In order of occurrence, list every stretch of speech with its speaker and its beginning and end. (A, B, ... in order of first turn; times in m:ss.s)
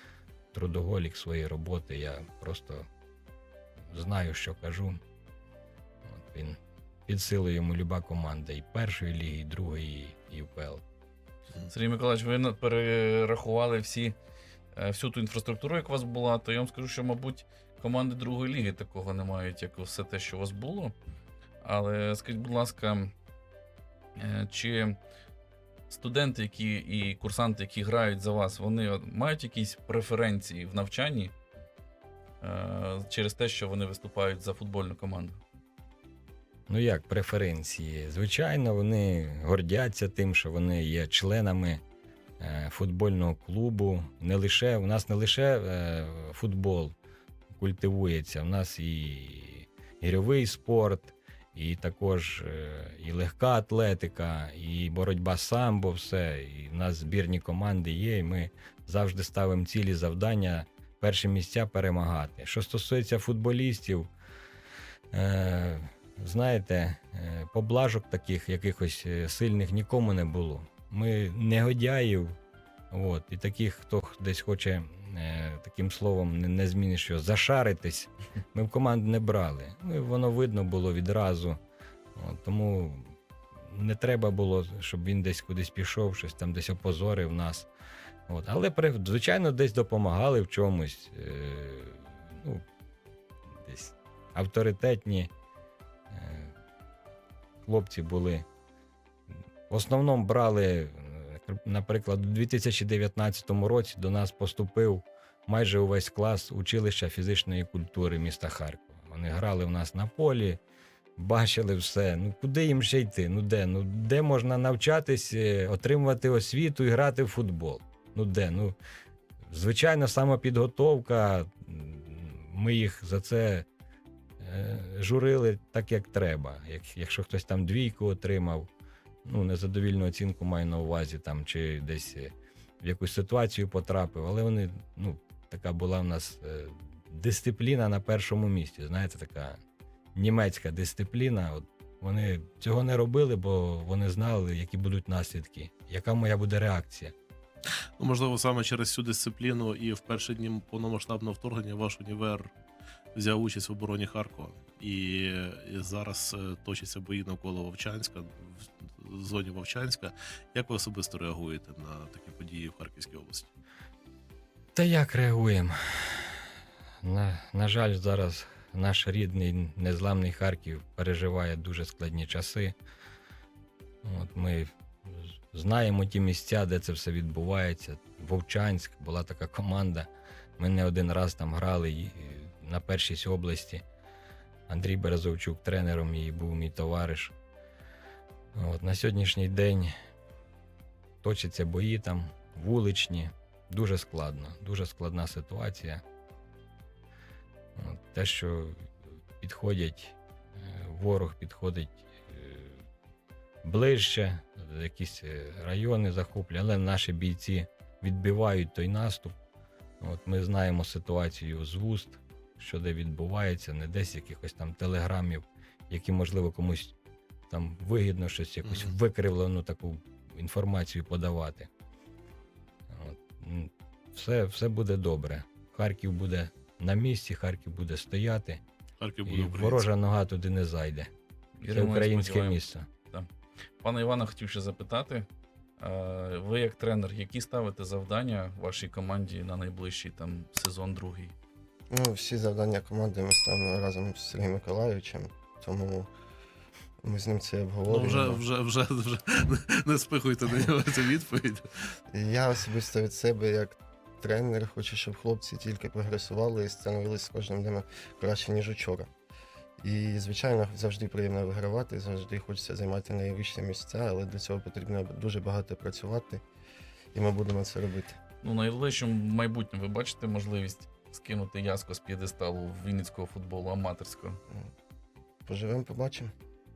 0:00.5-0:02.9 A
0:03.9-0:05.0 A
0:06.0-0:10.8 A
0:11.7-0:14.2 B
0:14.7-0:21.0 B
0:21.6-0:23.1 B
0:24.2-0:25.0 B
0:25.9-0:31.3 B
0:32.4-0:35.4 B
0:36.7-0:41.8 A
0:42.4-0:46.9 A
0:47.5-1:04.1 A
1:05.1-1:12.4 A
1:12.9-1:21.6 A
1:22.2-1:27.7 A
1:28.3-1:32.6 A
1:33.6-1:35.3 A
1:36.1-1:36.5 A
1:37.6-1:38.5 A
1:39.7-1:50.6 A
1:51.2-1:58.8 A
1:59.5-2:03.7 A
2:04.4-2:08.7 A
2:09.2-2:19.6 A
2:20.2-2:27.1 A
2:28.0-2:32.5 C
2:33.1-2:43.5 C
2:44.8-2:46.4 A
2:47.0-2:52.8 A
2:54.0-3:03.8 A
3:04.7-3:07.3 A
3:08.5-3:09.9 A
3:11.2-3:16.0 A
3:17.8-3:22.8 A
3:23.6-3:29.4 A
3:30.0-3:36.9 A
3:37.5-3:41.7 A
3:38.6-3:38.9 C
3:42.9-3:48.6 A
3:49.0-3:49.9 C
3:49.3-3:51.1 A
3:51.6-3:53.3 B
3:51.7-3:52.9 A
3:53.8-3:55.3 B
3:55.8-4:01.3 B
4:01.9-4:06.1 D
4:07.0-4:08.4 D
4:07.9-4:11.7 C
4:12.1-4:19.1 D
4:19.8-4:26.4 D
4:27.1-4:28.2 D
4:28.4-4:34.4 B
4:35.5-4:36.3 D